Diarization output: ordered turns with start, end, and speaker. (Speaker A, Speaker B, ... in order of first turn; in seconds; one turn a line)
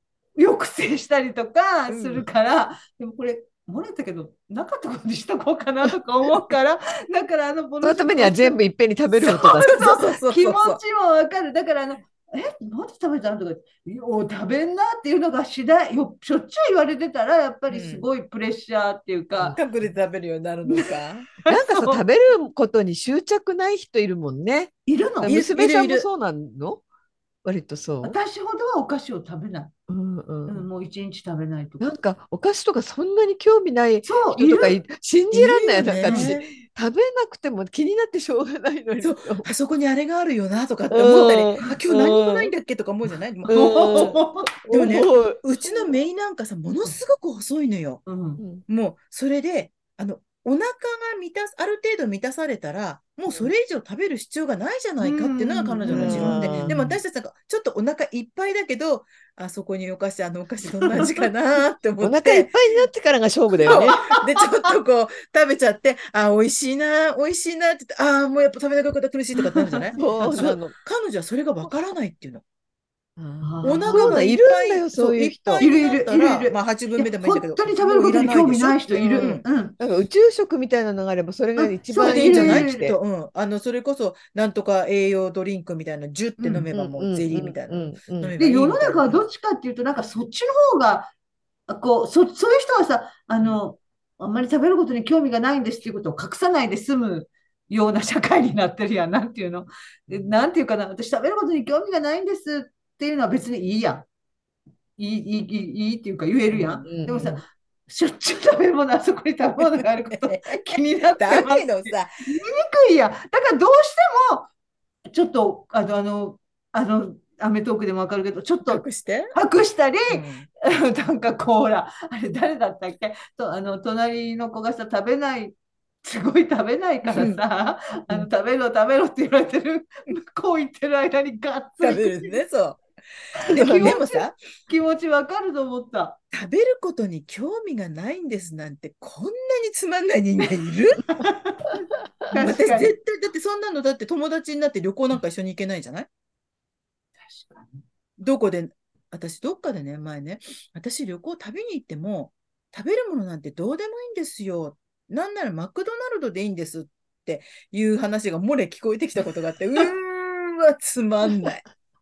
Speaker A: 0.4-8.6
Speaker B: 1.9-2.2
Speaker C: 7.8-9.8
Speaker A: 9.2-19.6
Speaker B: 9.2-10.8
Speaker B: 17.7-18.1
Speaker B: 19.5-21.2
Speaker A: 20.6-22.0
Speaker C: 21.5-26.8
Speaker A: 24.9-25.4
Speaker B: 25.2-26.1
Speaker C: 27.4-28.2
Speaker A: 28.0-29.7
Speaker C: 29.9-30.7
Speaker A: 30.5-31.9
Speaker C: 31.8-39.5
Speaker A: 34.0-34.8
Speaker B: 35.3-36.5
Speaker A: 36.0-36.3
Speaker B: 39.0-48.0
Speaker C: 40.9-42.5
Speaker A: 43.5-44.9
Speaker C: 43.5-45.4
Speaker A: 48.0-48.4
Speaker B: 48.6-62.5
Speaker A: 55.0-57.0
Speaker C: 55.9-56.8
Speaker A: 60.7-61.1
Speaker C: 62.0-64.0
Speaker A: 63.6-64.2
Speaker B: 63.7-72.4
Speaker A: 69.5-69.9
Speaker C: 70.0-70.7
Speaker C: 73.2-75.7
Speaker A: 73.4-74.2
Speaker B: 73.6-79.4
Speaker A: 75.6-79.7
Speaker C: 79.0-83.0
Speaker A: 81.6-82.9
Speaker B: 82.0-89.2
Speaker A: 86.4-86.7
Speaker C: 86.7-88.3
Speaker A: 88.4-91.1
Speaker A: 91.7-104.1
Speaker A: 105.0-114.5
Speaker B: 106.5-106.9
Speaker C: 106.8-107.4
Speaker B: 109.6-112.1
Speaker A: 115.1-132.4
Speaker B: 118.7-119.3
Speaker B: 120.1-120.5
Speaker B: 127.1-127.4
Speaker B: 131.8-132.8
Speaker B: 133.4-134.4
Speaker A: 133.4-136.2
Speaker C: 133.6-133.9
Speaker B: 136.3-141.2
Speaker A: 141.1-142.9
Speaker B: 142.3-146.1
Speaker A: 147.2-147.8
Speaker B: 148.2-161.6